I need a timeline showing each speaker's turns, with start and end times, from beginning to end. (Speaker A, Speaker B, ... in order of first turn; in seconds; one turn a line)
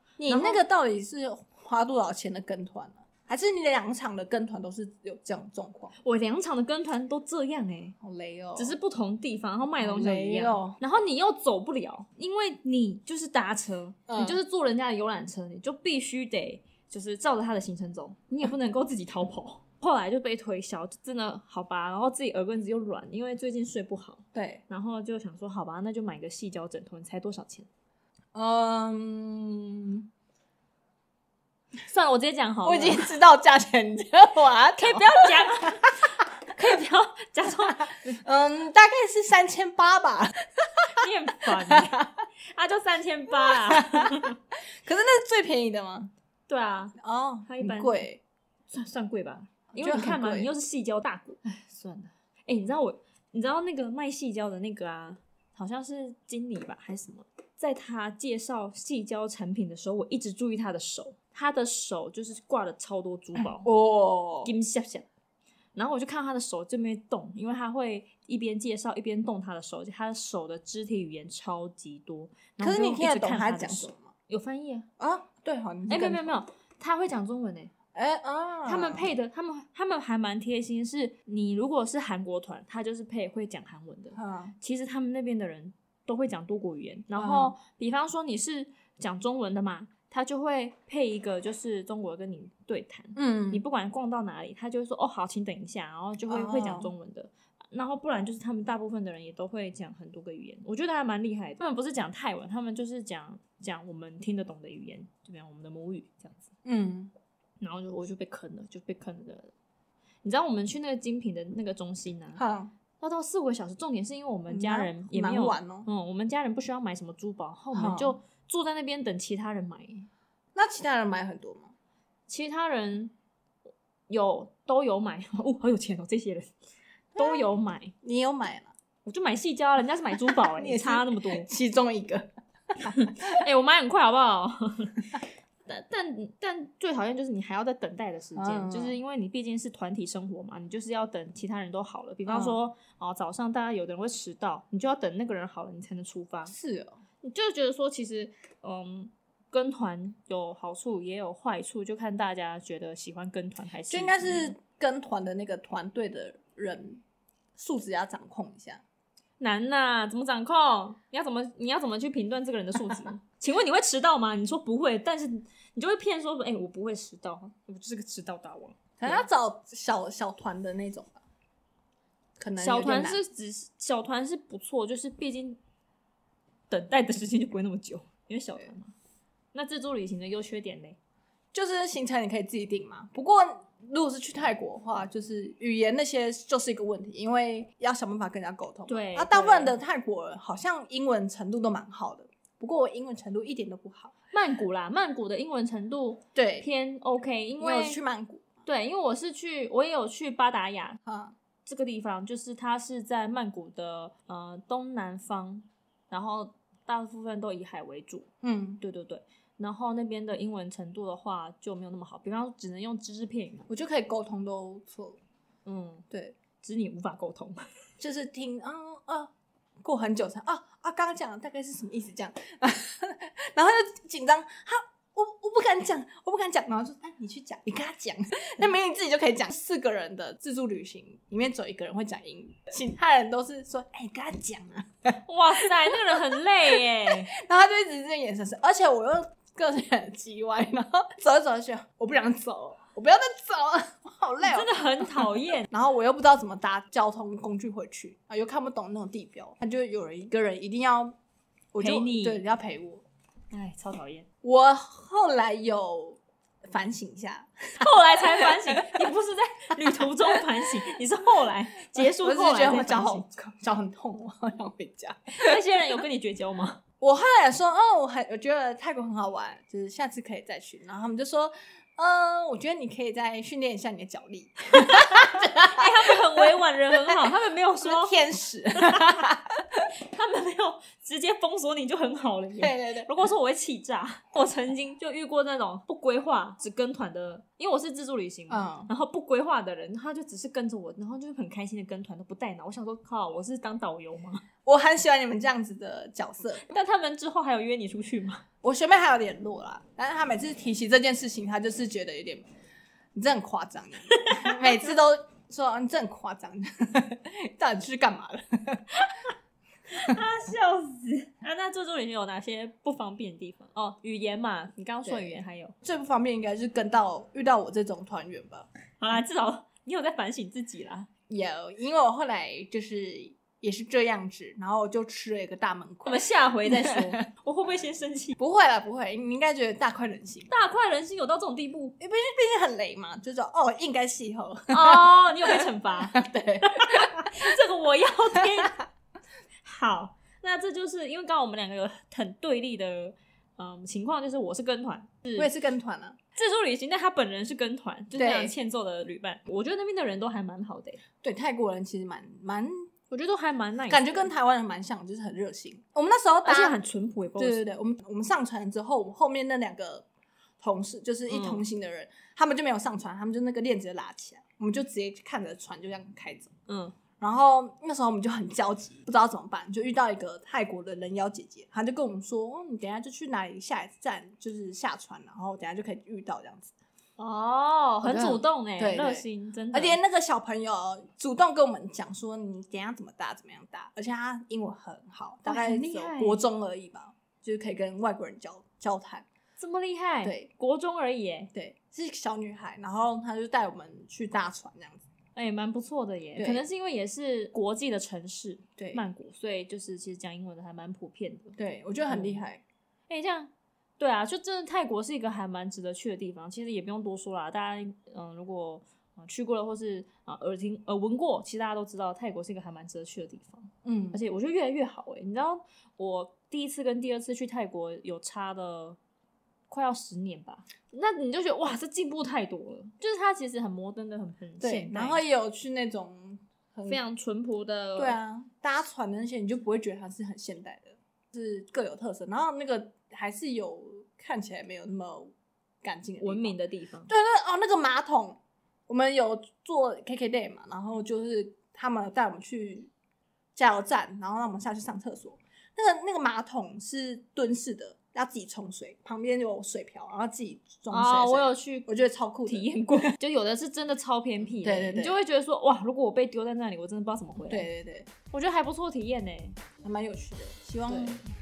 Speaker A: 0.2-6.0
Speaker B: 0.3-0.6
Speaker B: 6.0-8.0
Speaker A: 8.0-8.8
Speaker B: 8.6-27.7
Speaker A: 9.8-10.8
Speaker A: 14.1-14.4
Speaker A: 24.3-24.6
Speaker A: 28.3-30.1
Speaker B: 31.8-33.1
Speaker A: 32.6-35.7
Speaker B: 34.8-36.0
Speaker B: 36.5-38.2
Speaker A: 38.2-40.5
Speaker B: 41.0-42.0
Speaker A: 41.5-42.1
Speaker B: 42.5-44.4
Speaker A: 43.5-44.1
Speaker A: 44.8-46.1
Speaker B: 46.5-47.0
Speaker A: 47.0-48.2
Speaker B: 47.5-48.0
Speaker B: 48.7-63.7
Speaker A: 49.7-50.5
Speaker A: 63.6-64.5
Speaker B: 64.5-65.1
Speaker B: 65.8-74.9
Speaker A: 72.6-74.1
Speaker A: 75.0-76.4
Speaker B: 75.9-77.7
Speaker A: 77.9-79.1
Speaker B: 78.7-106.5
Speaker A: 84.2-84.5
Speaker A: 87.2-87.5
Speaker A: 93.2-93.7
Speaker A: 96.3-96.9
Speaker A: 106.7-107.1
Speaker B: 107.6-109.5
Speaker B: 110.2-112.4
Speaker A: 112.4-112.7
Speaker B: 113.0-120.1
Speaker A: 114.5-115.9
Speaker A: 117.7-118.2
Speaker A: 120.5-121.7
Speaker B: 122.3-123.1
Speaker B: 124.1-126.5
Speaker B: 127.2-127.9
Speaker A: 127.2-127.5
Speaker A: 128.0-128.7
Speaker B: 129.1-131.5
Speaker A: 130.3-132.3
Speaker A: 132.8-133.1
Speaker B: 132.9-146.5
Speaker A: 138.4-139.0
Speaker A: 142.3-142.6
Speaker A: 146.5-147.0
Speaker B: 147.2-154.6
Speaker A: 153.9-157.0
Speaker A: 157.6-158.8
Speaker B: 159.4-169.3
Speaker A: 169.0-171.2
Speaker A: 172.4-173.2
Speaker B: 172.6-175.6
Speaker B: 176.7-178.9
Speaker B: 179.5-181.0
Speaker A: 181.5-194.1
Speaker B: 188.9-189.8
Speaker B: 194.3-198.0
Speaker A: 196.3-196.7
Speaker A: 197.6-198.5
Speaker B: 198.7-201.0
Speaker A: 201.1-201.3
Speaker B: 201.7-208.3
Speaker A: 208.4-208.8
Speaker B: 208.8-213.7
Speaker A: 213.7-215.2
Speaker B: 215.7-216.1
Speaker B: 216.6-217.7
Speaker A: 218.0-219.3
Speaker A: 219.8-236.1
Speaker B: 235.3-237.3
Speaker A: 236.7-251.2
Speaker B: 244.4-245.7
Speaker A: 251.7-253.0
Speaker B: 251.8-252.4
Speaker B: 253.5-254.3
Speaker A: 254.4-258.9
Speaker B: 257.8-263.5
Speaker A: 262.0-265.6
Speaker B: 265.4-266.8
Speaker A: 267.0-277.3
Speaker B: 274.7-278.2
Speaker A: 277.8-279.8
Speaker B: 278.7-279.2
Speaker B: 280.1-294.4
Speaker A: 282.6-283.1
Speaker A: 288.5-288.9
Speaker A: 294.6-296.7
Speaker B: 296.6-298.4
Speaker A: 298.6-302.4
Speaker A: 303.1-309.1
Speaker B: 304.1-304.9
Speaker B: 309.9-315.7
Speaker A: 315.1-318.7
Speaker B: 319.0-321.1
Speaker A: 321.3-327.1
Speaker B: 326.1-328.4
Speaker A: 328.4-330.5
Speaker B: 330.5-332.0
Speaker A: 332.0-337.4
Speaker B: 334.7-338.8
Speaker B: 339.6-345.5
Speaker A: 345.4-346.2
Speaker B: 346.4-351.0
Speaker A: 348.1-348.5
Speaker A: 351.2-352.9
Speaker B: 353.1-354.3
Speaker A: 353.9-356.8
Speaker B: 356.4-357.6
Speaker A: 357.4-360.1
Speaker A: 360.6-366.5
Speaker B: 361.3-361.6
Speaker B: 366.7-366.9
Speaker A: 367.2-376.7
Speaker B: 377.2-380.0
Speaker A: 378.0-389.2
Speaker B: 385.4-386.4
Speaker B: 389.6-391.5
Speaker A: 390.2-390.5
Speaker A: 391.5-395.1
Speaker B: 395.4-401.6
Speaker A: 396.4-396.6
Speaker A: 398.8-399.0
Speaker A: 401.6-402.6
Speaker B: 402.1-402.4
Speaker B: 403.1-419.0
Speaker A: 413.8-414.2
Speaker B: 419.7-425.2
Speaker A: 424.6-427.0
Speaker B: 426.9-428.2
Speaker A: 428.0-435.3
Speaker A: 435.8-436.6
Speaker B: 436.2-437.1
Speaker A: 437.1-442.9
Speaker A: 443.6-453.1
Speaker B: 450.9-451.9
Speaker B: 452.5-457.7
Speaker A: 454.4-455.2
Speaker A: 457.4-458.1
Speaker B: 458.3-459.6
Speaker A: 459.8-461.2
Speaker B: 460.9-461.2